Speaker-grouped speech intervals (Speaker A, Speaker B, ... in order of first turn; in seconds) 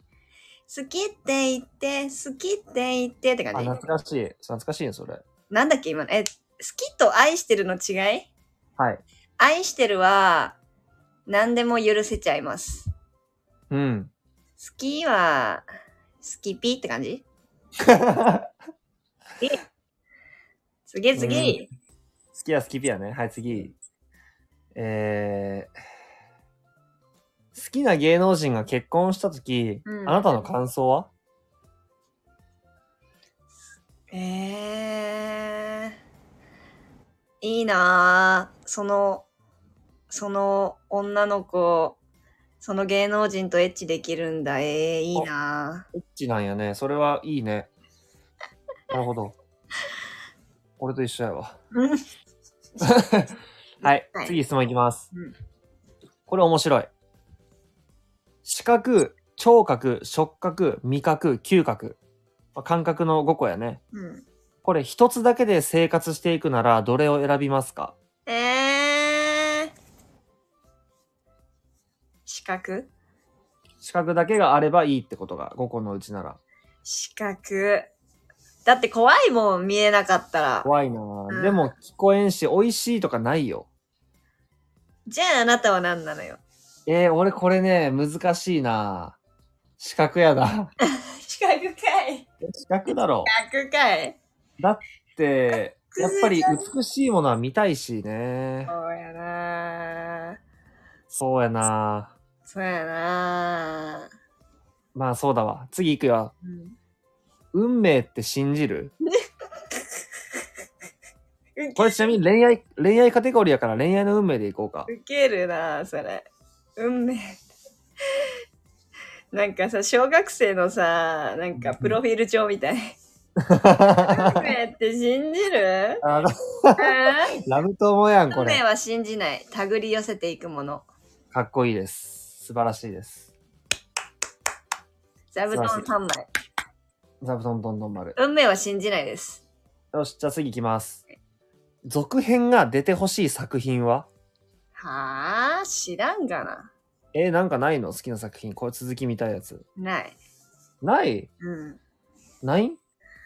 Speaker A: 0.7-3.8, 5.5-8.3, 9.4-10.6, 11.3-12.9, 14.6-15.7, 16.2-17.2, 20.9-21.7, 29.9-30.2, 34.1-35.9, 37.4-39.3, 40.1-42.0, 42.6-45.9, 51.7-52.0, 63.9-64.2, 68.3-69.7, 72.3-72.9, 76.8-77.9, 78.7-80.7, 81.3-81.7, 85.1-86.4, 90.9-92.3, 93.2-94.2, 95.9-96.7, 98.7-100.4, 102.5-104.1, 106.4-106.7, 111.6-112.2, 114.9-117.4, 119.3-123.0, 124.0-126.0, 126.8-127.4, 128.3-130.9, 135.3-136.3, 138.2-139.4, 144.8-146.7, 149.8-150.2, 151.4-151.8
Speaker B: 3.5-5.2, 13.7-14.1, 17.8-18.5, 21.2-21.6, 22.3-23.8, 24.8-25.7, 27.5-31.1, 45.9-47.7, 48.9-49.3, 50.8-51.5, 52.8-55.1, 56.3-56.9, 58.5-62.0, 62.5-63.8, 64.6-68.0, 73.8-76.4, 80.6-83.7, 86.9-89.2, 89.8-90.7, 92.4-93.3, 94.6-98.7, 101.1-102.1, 105.0-106.3, 107.5-108.9, 111.8-114.9, 121.5-122.0, 123.4-124.5, 126.0-128.6, 131.3-133.3, 135.5-135.9, 137.2-138.2, 139.9-141.0, 141.8-144.1, 147.1-149.6, 150.8-151.3, 152.4-152.8